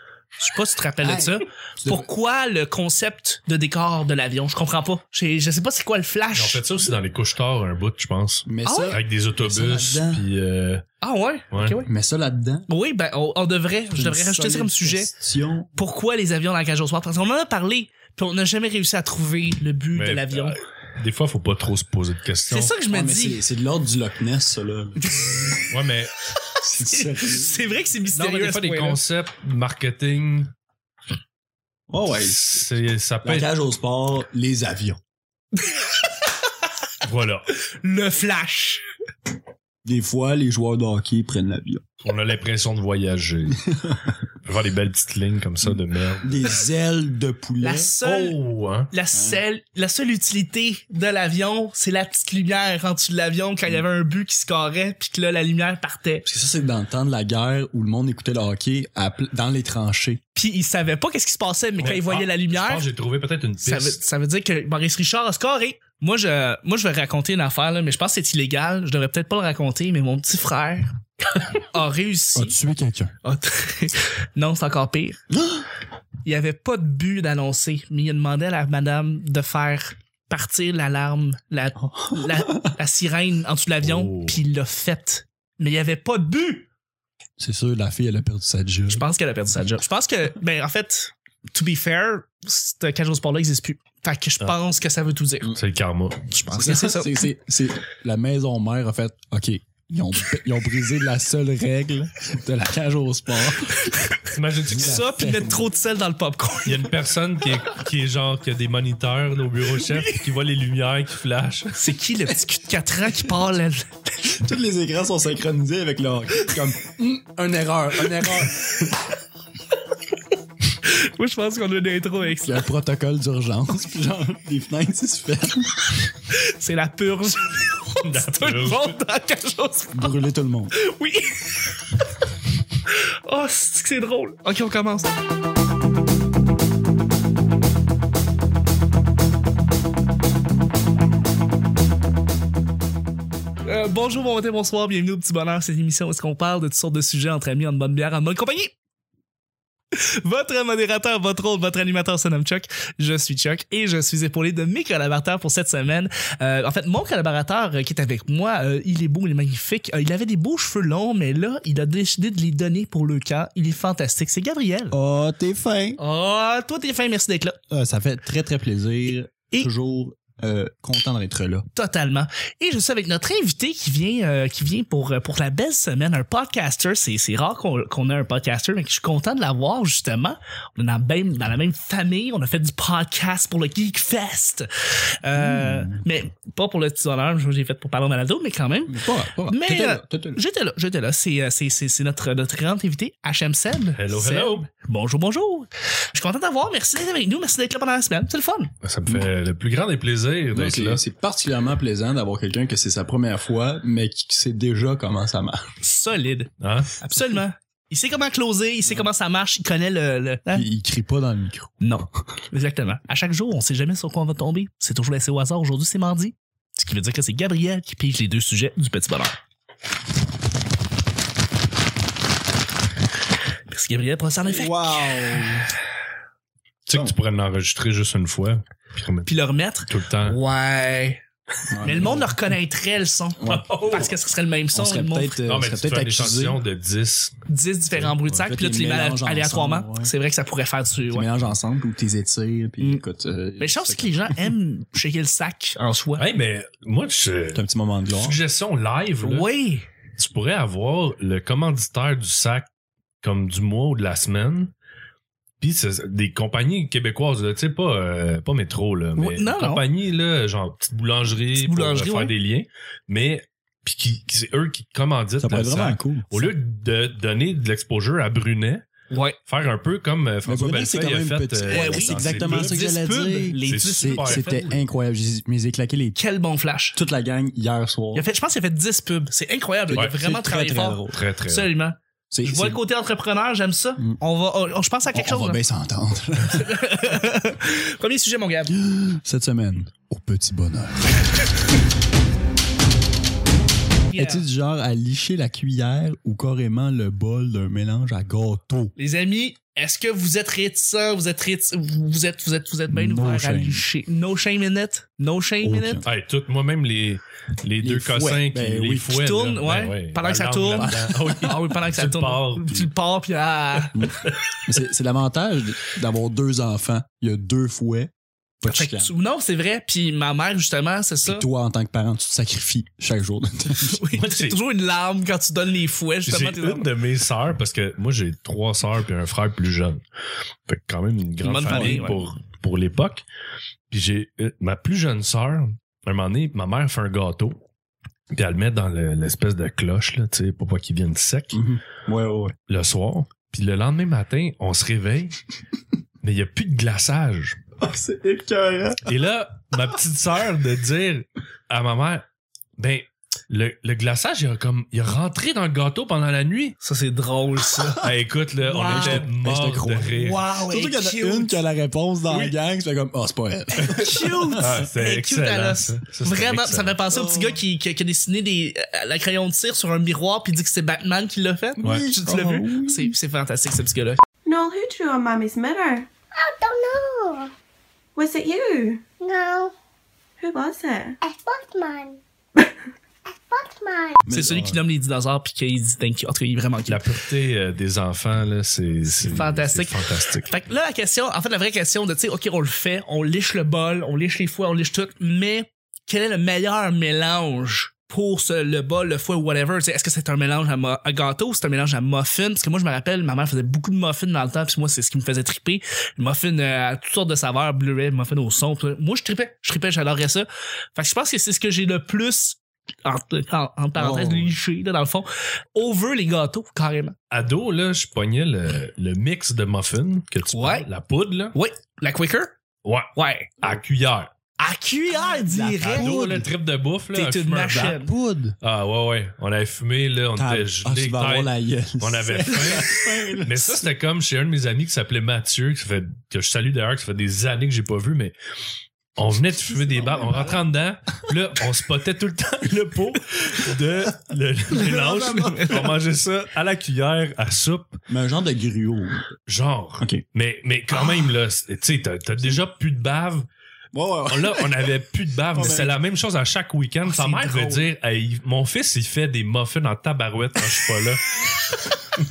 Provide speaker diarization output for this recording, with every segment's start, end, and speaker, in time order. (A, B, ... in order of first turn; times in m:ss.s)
0:00.4-0:06.6 A
0:01.0-0:02.1 B
0:06.4-0:10.8 C
0:08.5-0:10.3 B
0:08.6-0:09.0 A
0:11.0-0:11.9 A
0:11.5-0:11.8 C
0:11.8-0:12.7 B
0:12.7-0:15.1 A
0:13.9-0:15.8 B
0:15.8-0:20.6 A
0:20.0-0:22.7 C
0:22.5-0:23.4 A
0:22.9-0:25.6 B
0:25.1-0:25.5 A
0:25.7-0:26.2 C
0:26.6-0:27.7 B
0:26.9-0:29.0 A
0:28.1-0:30.5 C
0:31.9-0:32.6 B
0:32.1-0:33.5 C
0:33.2-0:35.0 B
0:35.6-0:35.9 A
0:37.0-0:37.5 C
0:37.6-0:38.8 A
0:39.8-0:41.9 B
0:42.0-0:43.6 C
0:43.7-0:44.0 B
0:44.4-0:46.4 C
0:46.2-0:47.9 B
0:47.6-0:48.4 A
0:48.0-0:48.9 C
0:48.9-0:56.2 A
0:49.1-0:49.4 B
0:56.2-1:00.2 B
1:00.4-1:02.8 A
1:01.8-1:04.0 C
1:03.6-1:12.6 A
1:12.4-1:13.1 B
1:13.2-1:15.2 A
1:15.3-1:15.7 B
1:16.2-1:26.7 A
1:21.9-1:22.7 B
1:23.8-1:24.4 C
1:27.4-1:29.0 B
1:28.9-1:35.6 A
1:35.5-1:36.3 C
1:36.3-1:37.2 A
1:36.5-1:43.8 B
1:43.8-1:46.9 A
1:44.3-1:45.1 C
1:44.7-1:45.7 B
1:46.6-1:51.8 C
1:51.8-1:54.0 A
1:54.3-1:59.1 B
2:00.8-2:02.6 A
2:02.4-2:06.1 B
2:06.3-2:10.2 A
2:08.0-2:09.0 C
2:09.9-2:10.7 B
2:10.8-2:11.6 A
2:13.3-2:15.1 A
2:23.7-2:28.7 A
2:29.9-2:45.0 A
2:44.9-2:46.0 B
2:46.0-2:47.6 A
2:47.7-2:51.7 B
2:51.7-3:04.7 A
3:05.2-3:18.7 A
3:05.4-3:06.0 B
3:08.9-3:10.4 B
3:14.0-3:14.7 C
3:18.8-3:21.0 C
3:20.5-3:25.7 B
3:25.8-3:30.7 A
3:26.6-3:27.0 C
3:30.5-3:31.8 B
3:31.8-3:39.4 A
3:43.7-3:45.5 A
3:44.5-3:45.7 B
3:46.9-3:49.3 C
3:49.2-3:51.2 A
3:49.9-3:50.4 C
3:51.7-3:52.4 B
3:51.8-3:55.4 A
3:53.4-3:54.1 B
3:53.5-3:54.1 C
3:54.7-3:56.6 B
3:55.4-3:57.4 C
3:57.5-4:01.3 A
3:57.9-3:58.2 C
3:58.3-4:00.1 B
4:01.1-4:04.5 B
4:03.6-4:06.3 A
4:06.2-4:07.6 C
4:07.5-4:08.4 B
4:08.2-4:09.5 C
4:09.2-4:09.9 A
4:10.2-4:12.7 C
4:13.2-4:14.7 C
4:15.6-4:28.9 C
4:19.2-4:19.8 A
4:21.6-4:22.3 A
4:25.4-4:26.5 B
4:29.1-4:29.4 A
4:29.5-4:32.8 C
4:30.5-4:36.2 B
4:31.7-4:34.7 A
4:33.7-4:34.7 C
4:36.2-4:37.0 A
4:37.0-4:38.3 B
4:38.1-4:45.6 A
4:39.9-4:41.2 B
4:41.1-4:41.7 C
4:42.3-4:42.8 B
4:45.1-4:47.0 B
4:46.5-4:48.8 A
4:48.7-4:51.2 B
4:54.1-4:54.5 A
4:54.1-4:58.9 B
4:59.0-5:06.0 A
5:02.9-5:03.8 B
5:05.6-5:06.1 B
5:06.0-5:12.9 C
5:07.8-5:09.2 B
5:09.1-5:14.0 A
5:10.8-5:11.5 B
5:13.9-5:19.1 B
5:18.6-5:21.5 A
5:21.2-5:24.0 B
5:23.8-5:26.9 A
5:24.1-5:24.6 C
5:26.3-5:30.0 C
5:30.7-5:33.2 C
5:31.4-5:32.3 A
5:31.7-5:32.0 B
5:33.9-5:37.6 C
5:38.3-5:41.6 C
5:41.5-5:42.6 B
5:42.7-5:45.4 C
5:46.2-5:47.6 C
5:47.8-5:49.1 B
5:49.0-5:52.2 C
5:52.8-5:56.8 C
5:56.8-5:58.1 A
5:58.0-6:00.4 C
5:58.6-5:59.3 A
5:58.8-6:04.8 B
6:00.2-6:01.6 A
6:03.8-6:14.2 A
6:04.6-6:07.0 C
6:07.1-6:07.6 B
6:11.8-6:13.1 B
6:14.5-6:16.1 D
6:16.3-6:17.5 E
6:18.2-6:19.1 D
6:19.2-6:19.7 E
6:20.4-6:21.2 D
6:21.2-6:22.2 E
6:23.5-6:24.2 E
6:24.2-6:24.8 B
6:24.3-6:27.1 A
6:26.9-6:30.6 C
6:29.1-6:57.2 A
6:54.0-6:54.5 B
6:57.3-7:01.6 C
7:00.5-7:00.9 A
7:01.5-7:02.6 A
7:02.8-7:03.1 C
7:03.2-7:03.6 A
7:03.6-7:04.3 C
7:04.6-7:06.4 A
7:05.2-7:06.5 B
7:05.8-7:07.9 C
7:07.1-7:08.1 A
7:07.7-7:08.6 B
7:08.6-7:18.3 C
7:10.4-7:13.9 B
7:19.2-7:28.0 C
7:19.7-7:20.6 B
7:24.7-7:25.9 B
7:25.0-7:25.8 A
7:28.1-7:29.2 B
7:29.5-7:33.5 C
7:33.9-7:34.9 B
7:34.3-7:41.4 C
7:35.6-7:36.0 B
7:37.0-7:37.9 A